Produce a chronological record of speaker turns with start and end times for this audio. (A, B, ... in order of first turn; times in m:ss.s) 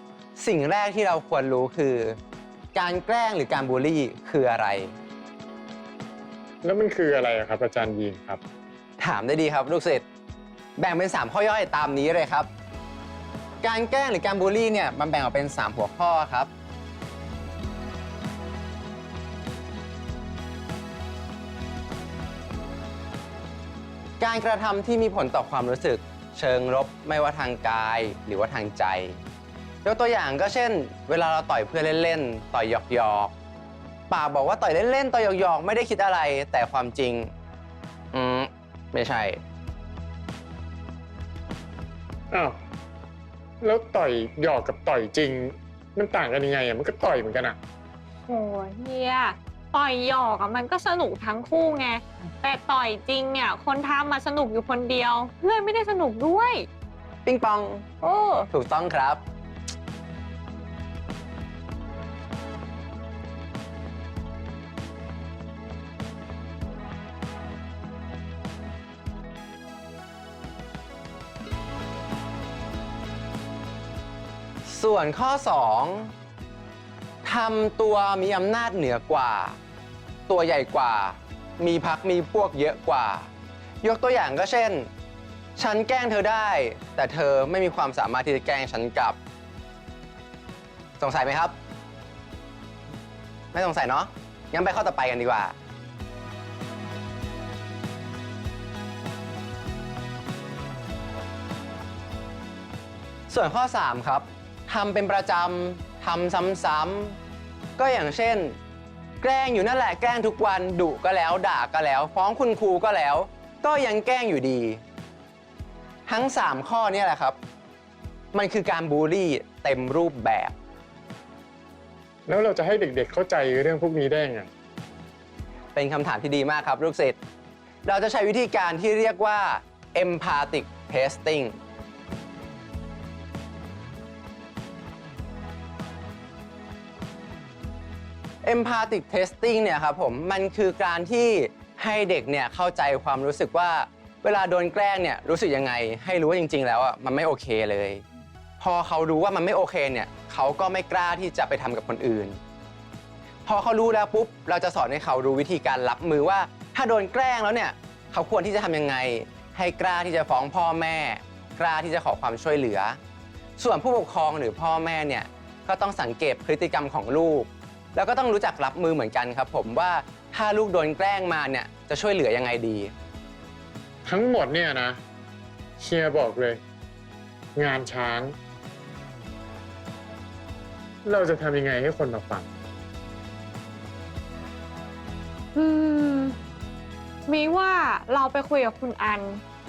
0:00.4-0:02.2 A
0:02.7-0:04.9 A
0:06.6-0:08.4 B
0:09.0-0:10.0 A
0:10.8-0:12.5 A
0:13.6-0:16.5 A
0:24.2-0:29.2 A
0:29.8-0:33.3 A
0:34.1-0:37.3 A
0:38.1-0:39.4 A
0:42.3-0:42.6 B
0:43.6-0:47.6 B
0:48.3-0:56.7 C
0:57.2-0:57.9 A
0:58.0-0:58.5 C
0:58.5-0:59.2 A
1:14.6-1:16.1 A
1:17.2-1:19.6 A
1:20.3-1:23.3 A
1:23.8-1:24.9 A
1:25.6-1:29.2 A
1:31.0-1:31.6 A
1:33.5-1:35.5 A
1:43.3-1:47.2 A
1:47.8-1:48.6 A
1:49.2-1:54.8 A
1:56.1-1:57.4 A
1:58.3-2:00.5 A
2:02.3-2:04.5 B
2:05.7-2:07.2 A
2:07.8-2:11.5 A
2:18.4-2:28.0 A
2:28.6-2:32.4 A
2:33.4-2:43.0 A
2:43.6-2:52.9 A
2:54.0-2:55.0 B
2:55.8-2:56.6 B
2:57.5-2:58.3 B
3:01.0-3:02.5 B
3:05.5-3:06.4 C
3:07.3-3:09.4 C